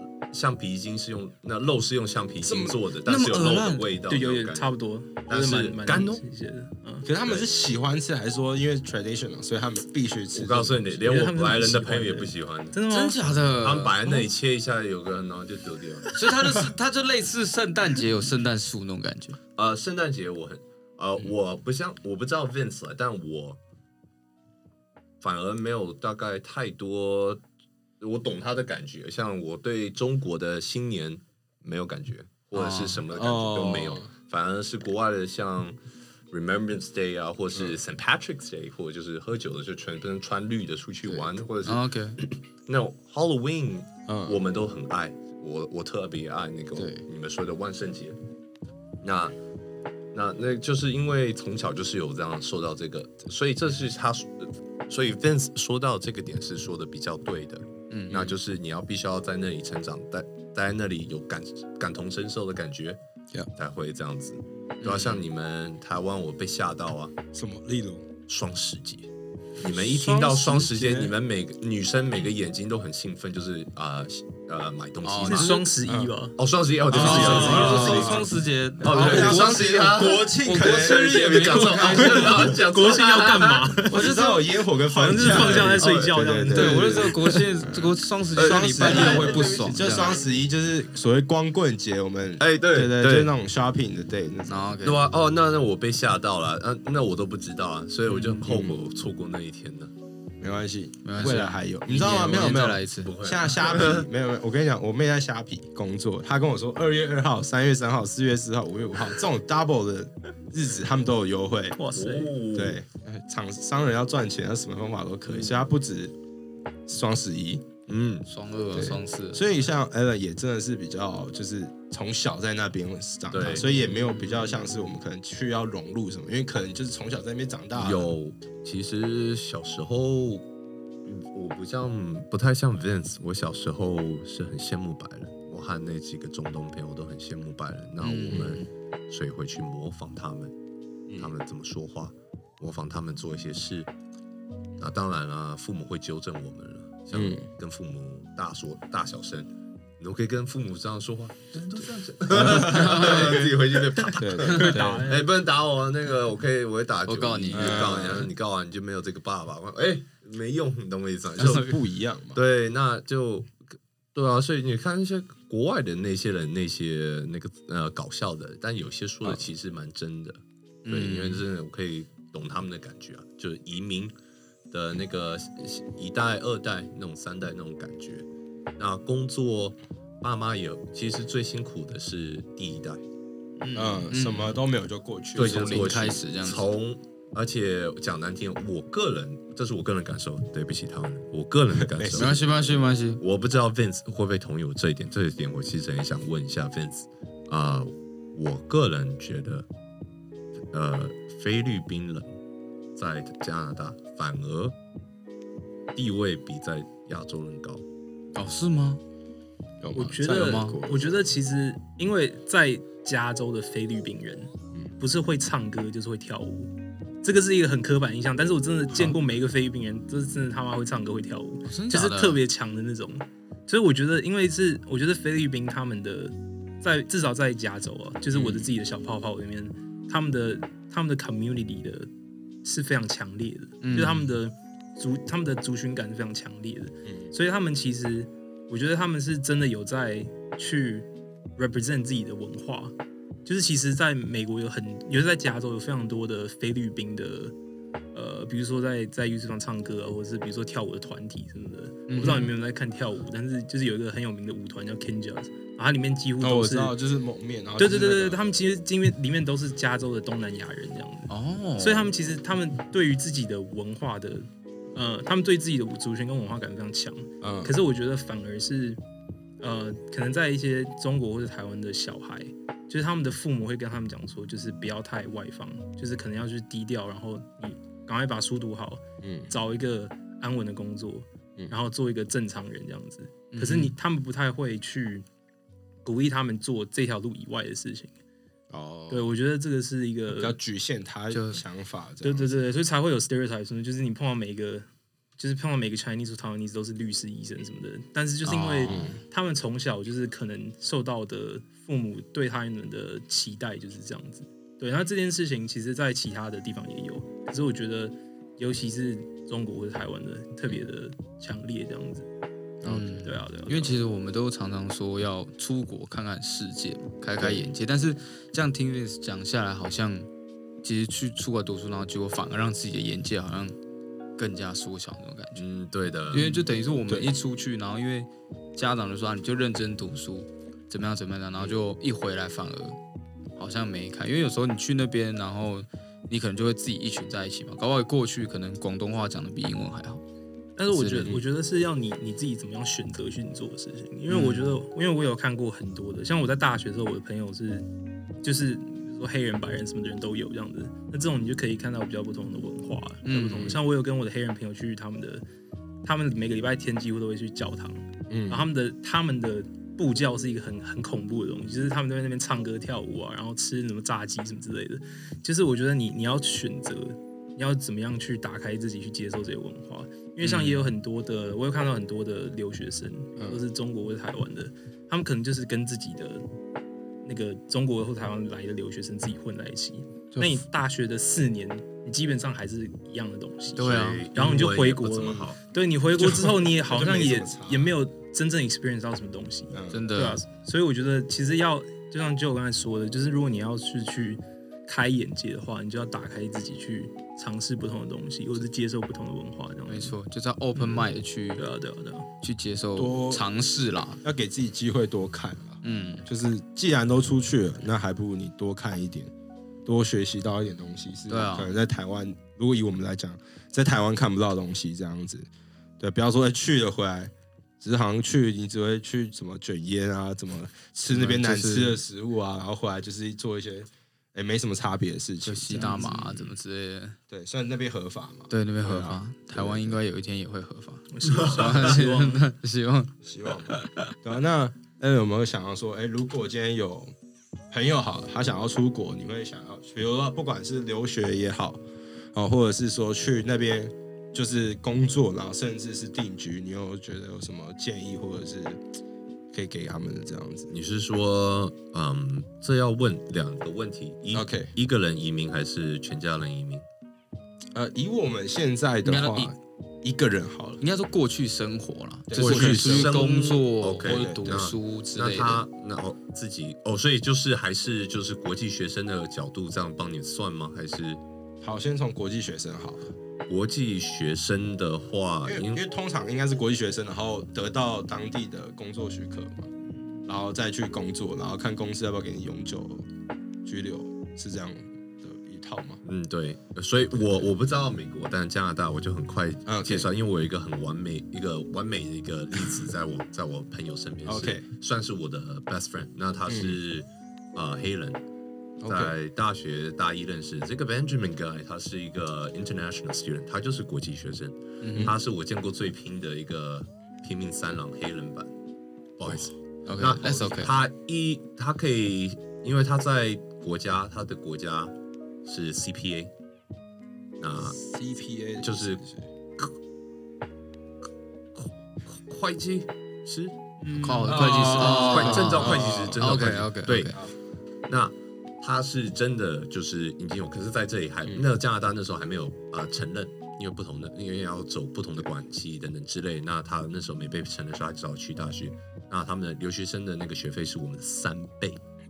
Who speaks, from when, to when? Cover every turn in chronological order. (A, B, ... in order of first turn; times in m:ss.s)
0:00.3-0:04.7 A
0:02.4-0:02.8 B
0:03.0-0:03.9 C
0:04.1-0:07.1 D
0:05.3-0:06.2 A
0:07.0-0:11.1 B
0:10.3-0:12.8 A
0:11.0-0:13.3 D
0:12.9-0:14.0 C
0:13.6-0:16.1 A
0:16.1-0:19.4 C
0:19.5-0:23.6 A
0:25.2-0:27.4 A
0:28.0-0:35.8 A
0:32.5-0:33.0 C
0:33.1-0:34.1 B
0:36.3-0:48.2 A
0:37.5-0:37.8 B
0:41.0-0:41.3 B
0:41.6-0:42.2 C
0:44.1-0:44.4 B
0:46.7-0:47.0 B
0:49.0-0:49.4 A
0:50.1-1:03.0 A
0:57.9-0:58.3 C
1:03.6-1:07.1 A
1:04.8-1:05.2 C
1:07.3-1:08.1 B
1:08.3-1:09.1 A
1:09.6-1:15.6 A
1:09.6-1:11.2 B
1:15.0-1:15.6 C
1:15.2-1:16.4 D
1:15.8-1:16.1 B
1:16.4-1:18.3 A
1:16.9-1:18.3 B
1:16.9-1:22.5 C
1:17.0-1:18.1 D
1:18.8-1:22.6 B
1:18.8-1:23.8 A
1:22.0-1:24.2 D
1:23.9-1:34.8 B
1:23.9-1:24.4 C
1:24.8-1:27.4 D
1:25.3-1:26.1 A
1:26.5-1:30.2 C
1:28.4-1:30.2 A
1:32.4-1:33.3 A
1:34.5-1:35.1 C
1:34.8-1:39.9 A
1:38.4-1:38.8 B
1:40.4-1:51.8 B
1:41.0-1:43.1 C
1:42.5-1:44.1 A
1:51.8-1:52.3 D
1:51.9-1:52.8 A
1:52.5-1:56.1 B
1:55.3-1:55.6 A
1:56.9-1:57.6 B
1:57.9-1:58.2 A
1:58.2-1:59.4 C
1:58.7-2:08.1 B
2:03.3-2:03.7 A
2:03.8-2:04.4 C
2:07.7-2:10.4 A
2:11.0-2:20.5 A
2:18.0-2:18.7 C
2:21.1-2:21.3 B
2:21.2-2:23.9 A
2:24.8-2:41.7 A
2:27.1-2:27.5 B
2:32.3-2:33.4 B
2:32.3-2:33.5 C
2:34.1-2:35.1 B
2:34.5-2:35.3 D
2:37.1-2:38.3 C
2:37.5-2:38.3 B
2:41.4-2:42.4 B
2:41.4-2:41.7 C
2:42.3-2:43.6 A
2:44.1-2:54.1 A
2:50.8-2:51.4 C
2:54.7-2:58.3 A
2:58.8-3:03.0 A
3:03.6-3:04.6 C
3:03.7-3:06.0 B
3:05.3-3:12.5 A
3:05.4-3:06.7 C
3:11.8-3:12.4 B
3:12.1-3:13.2 C
3:13.2-3:19.6 A
3:20.7-3:22.3 A
3:23.0-3:24.8 A
3:25.9-3:27.8 A
3:28.3-3:29.0 C
3:29.8-3:31.2 B
3:29.9-3:36.7 D
3:30.3-3:30.8 C
3:37.2-3:52.1 D
3:41.6-3:42.4 C
3:48.3-3:48.7 B
3:52.6-4:02.9 D
3:53.8-3:54.3 C
3:57.0-3:57.3 B
4:03.4-4:07.5 D
4:08.1-4:16.9 D
4:12.1-4:12.5 C
4:16.4-4:18.4 B
4:17.8-4:29.0 D
4:21.3-4:22.1 C
4:27.4-4:27.7 B
4:29.6-4:45.2 D
4:39.2-4:39.5 B
4:43.5-4:43.9 C
4:46.0-4:48.1 D
4:48.7-4:49.3 B
4:49.1-4:50.6 D
4:50.3-4:52.6 B
4:51.3-4:51.6 C
4:52.2-4:54.8 D
4:55.4-5:12.3 D
4:58.4-4:59.1 C
4:58.9-4:59.2 B
5:12.8-5:13.2 B
5:12.8-5:20.3 C
5:13.2-5:13.9 D
5:17.4-5:17.8 B
5:20.8-5:23.7 C
5:24.4-5:25.6 C
5:25.6-5:26.4 A
5:26.3-5:33.0 C
5:26.3-5:27.3 B
5:33.6-5:40.2 C
5:40.8-5:47.8 D
5:40.9-5:41.4 C
5:44.3-5:44.8 C
5:48.4-5:55.4 D
5:53.2-5:53.8 C
5:56.0-6:16.4 D
5:58.3-5:58.7 B
6:10.4-6:10.9 C
6:13.4-6:13.6 B
6:17.2-6:40.2 D
6:20.3-6:20.6 B
6:23.8-6:24.3 C
6:23.8-6:25.6 A
6:26.1-6:27.9 B
6:29.7-6:30.0 B
6:29.9-6:30.4 C
6:39.9-6:41.6 C
6:41.6-6:42.3 D
6:42.4-6:44.2 C
6:43.0-6:43.5 B
6:44.2-6:49.3 B
6:45.8-6:46.2 C
6:49.8-7:06.6 B
6:51.3-6:51.7 C
7:01.1-7:02.0 C
7:05.4-7:07.2 C
7:07.3-7:10.0 B
7:08.5-7:14.1 C
7:11.1-7:12.4 D
7:13.2-7:17.1 B
7:17.7-7:21.8 B
7:22.3-7:28.8 B
7:29.5-7:30.7 B
7:30.7-7:36.8 A
7:34.3-7:34.7 B
7:37.7-7:40.8 B
7:39.0-7:39.5 C
7:40.8-7:45.6 C
7:42.3-7:43.2 B
7:42.3-7:51.2 A
7:44.0-7:44.7 B
7:51.6-7:53.1 B
7:53.5-7:55.8 A
7:55.4-7:59.7 B
8:00.2-8:03.0 B
8:03.6-8:06.0 B
8:06.0-8:18.2 A
8:09.6-8:10.1 B
8:14.2-8:14.6 B
8:16.5-8:16.8 B
8:18.8-8:19.1 B
8:18.8-8:28.5 A
8:24.8-8:25.1 C
8:29.2-8:34.9 A
8:29.2-8:30.7 B
8:29.8-8:30.8 C
8:35.4-8:36.3 A
8:37.4-8:37.8 A
8:37.5-8:39.3 B
8:38.6-8:39.0 A
8:41.5-8:43.6 A
8:43.8-8:44.8 D
8:44.0-8:47.1 C
8:44.2-8:46.4 B
8:44.4-8:47.2 A
8:47.9-9:01.8 A